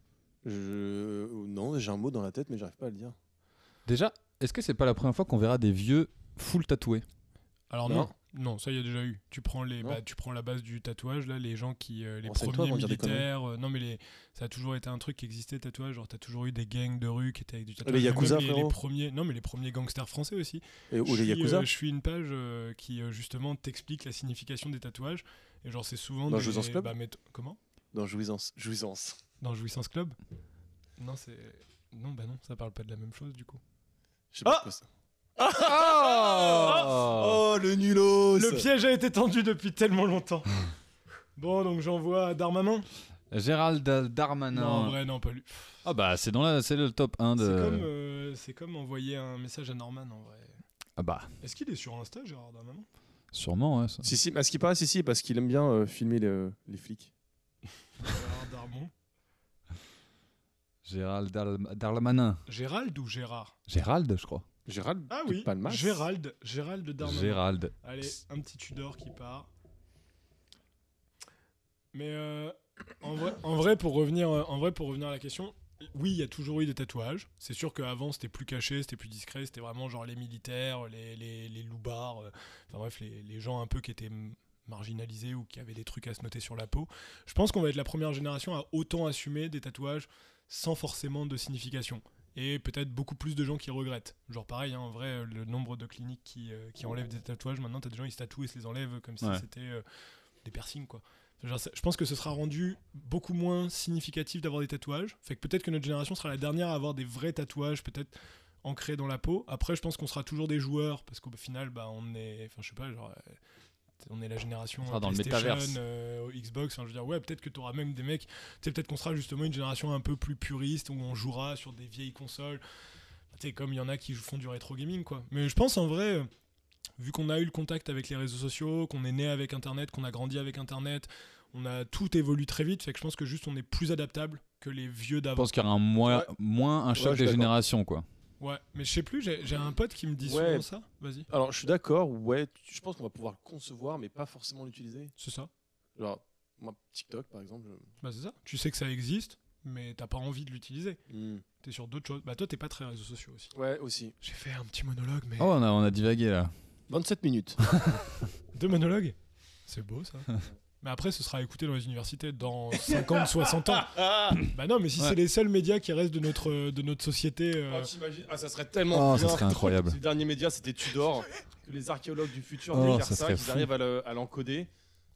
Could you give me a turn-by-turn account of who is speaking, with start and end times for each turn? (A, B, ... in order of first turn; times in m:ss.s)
0:00.4-0:03.2 A
0:03.9-0:07.0 B
0:07.7-0:27.6 C
0:07.8-0:08.1 A
0:12.2-0:13.3 A
0:17.8-0:18.8 A
0:20.9-0:21.7 A
0:26.3-0:26.9 A
0:27.9-0:29.2 A
0:29.4-0:30.2 C
0:31.0-0:33.6 C
0:34.3-0:34.8 A
0:35.4-0:38.7 A
0:35.5-0:37.4 B
0:38.3-0:40.5 C
0:41.4-0:42.9 C
0:43.3-0:44.9 B
0:44.5-0:45.8 C
0:45.8-0:47.9 B
0:47.4-0:50.6 C
0:51.0-0:51.3 B
0:51.4-0:52.8 C
0:53.3-0:54.1 B
0:54.0-0:57.1 A
0:58.0-0:58.9 C
1:00.8-1:02.4 B
1:02.5-1:03.6 C
1:03.7-1:04.4 B
1:04.6-1:06.1 A
1:05.1-1:09.5 C
1:07.0-1:07.7 B
1:11.9-1:39.8 C
1:40.4-1:53.4 C
1:54.0-2:02.6 C
1:54.8-1:55.8 B
2:03.3-2:06.3 C
2:07.0-2:15.5 C
2:15.4-2:18.0 B
2:16.0-2:16.3 A
2:16.9-2:17.5 A
2:18.4-2:21.3 C
2:20.2-2:20.7 A
2:21.3-2:25.1 A
2:25.2-2:25.5 C
2:26.0-2:27.9 A
2:28.0-2:31.0 C
2:31.1-2:31.4 A
2:31.6-2:33.5 C
2:33.5-2:34.1 A
2:34.2-2:35.5 C
2:35.4-2:36.5 B
2:36.9-2:37.6 A
2:37.7-2:38.0 B
2:38.5-2:47.9 C
2:42.9-2:44.4 A
2:47.7-2:54.7 A
2:48.9-2:50.0 B
2:52.7-2:53.7 B